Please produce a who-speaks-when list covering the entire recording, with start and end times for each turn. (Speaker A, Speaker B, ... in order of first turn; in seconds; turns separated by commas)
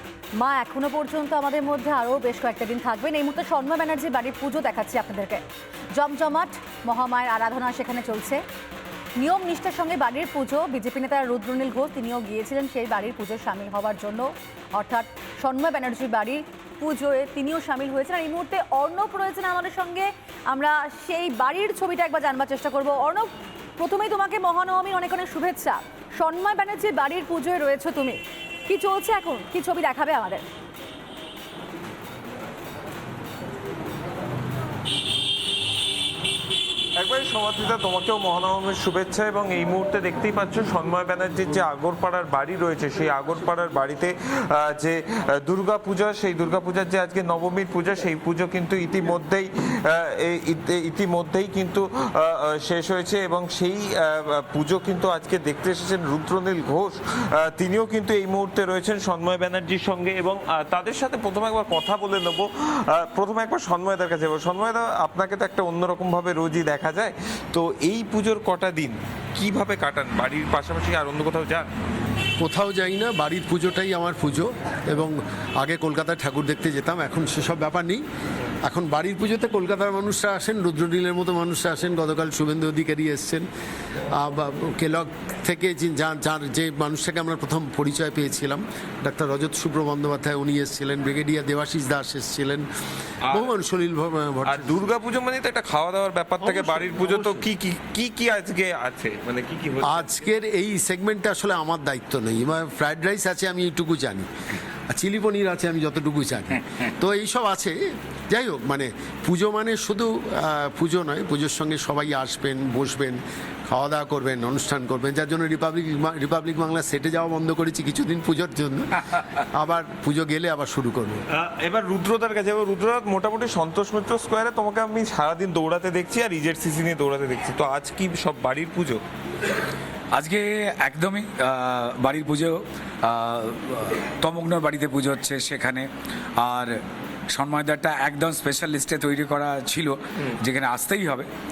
Speaker A: 0.4-5.4, Speaker A: 5.9-8.4, Speaker A: 9.2-30.4, Speaker B: 37.0-71.7, Speaker C: 72.4-78.0, Speaker C: 78.6-83.5, Speaker C: 84.1-92.7, Speaker B: 93.2-93.5, Speaker C: 93.3-94.8, Speaker B: 94.4-100.2, Speaker C: 96.4-97.4, Speaker C: 99.8-104.3, Speaker C: 104.9-107.7, Speaker C: 108.3-121.2, Speaker B: 121.3-129.0, Speaker D: 130.1-135.8, Speaker D: 136.4-136.7, Speaker D: 137.3-141.3